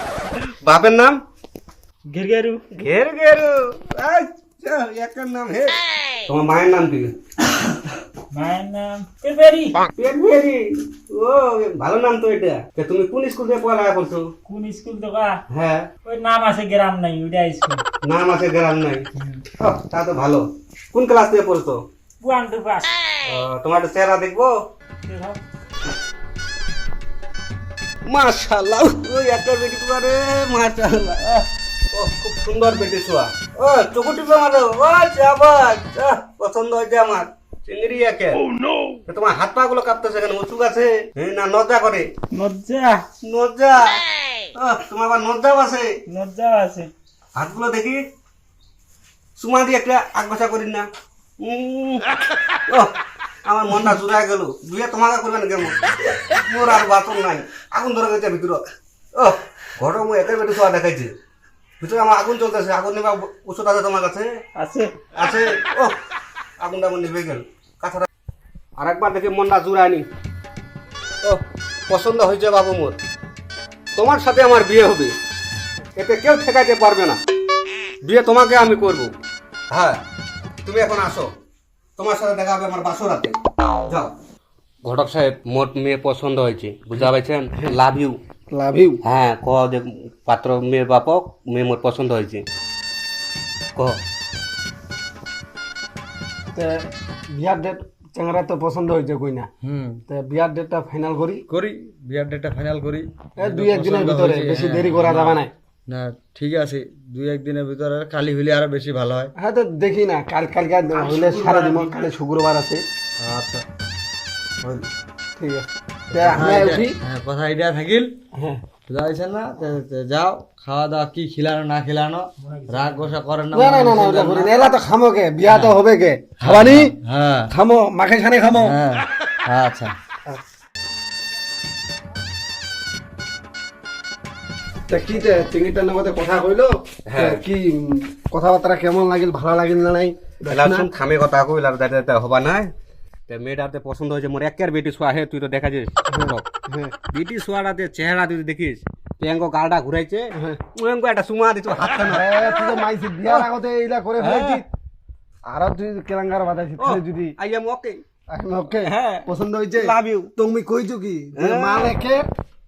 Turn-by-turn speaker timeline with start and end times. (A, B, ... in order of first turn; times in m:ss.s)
0:00.6-0:01.2 A
0:02.1-0:02.8 B
0:02.8-0:07.1 A
0:08.3-0:09.8 B
0:10.0-0:14.3 A
0:14.4-0:15.4 B
0:15.5-0:15.8 A
0:16.0-0:17.8 B
0:18.0-0:19.0 A
0:19.6-0:21.8 A
0:22.2-0:22.9 B
0:23.2-0:24.5 A
0:25.0-0:25.4 B
0:28.0-0:38.4 A
0:39.1-0:42.1 A
0:42.3-0:43.1 B
0:43.2-0:44.0 A
0:44.6-0:45.9 A
0:46.1-0:46.9 B
0:47.3-0:48.0 A
0:49.4-0:50.9 A
0:51.4-0:52.1 A
0:53.4-0:58.6 A
0:59.2-1:01.1 A
1:01.8-1:04.3 A
1:04.6-1:05.0 B
1:05.1-1:05.9 A
1:06.6-1:08.1 A
1:08.8-1:10.0 A
1:11.2-1:13.0 A
1:14.0-1:15.1 A
1:16.0-1:17.2 A
1:18.0-1:19.1 A
1:19.7-1:20.0 A
1:20.6-1:21.3 A
1:22.0-1:24.1 A
1:24.8-1:28.2 A
1:28.5-1:29.0 C
1:29.0-1:32.4 A
1:36.5-1:39.5 C
1:39.6-1:40.0 D
1:40.1-1:41.4 C
1:41.5-1:45.1 D
1:43.4-1:45.5 C
1:45.0-1:45.4 A
1:45.9-1:49.3 D
1:49.4-1:52.8 C
1:53.2-1:53.6 D
1:55.4-1:57.0 C
1:56.1-1:58.1 D
1:58.3-1:58.6 C
1:58.9-2:04.5 D
2:02.4-2:02.9 B
2:03.5-2:06.9 C
2:05.5-2:05.7 D
2:06.4-2:07.5 D
2:07.5-2:08.8 C
2:08.5-2:09.9 D
2:14.9-2:20.9 C
2:17.1-2:17.4 A
2:20.5-2:22.7 A
2:23.3-2:26.4 A
2:26.1-2:26.9 C
2:27.1-2:33.5 A
2:30.4-2:30.6 C
2:32.0-2:34.6 C
2:34.2-2:34.6 A
2:35.4-2:37.3 C
2:36.8-2:38.0 A
2:38.3-2:42.3 C
2:38.8-2:40.3 A
2:41.3-2:41.9 A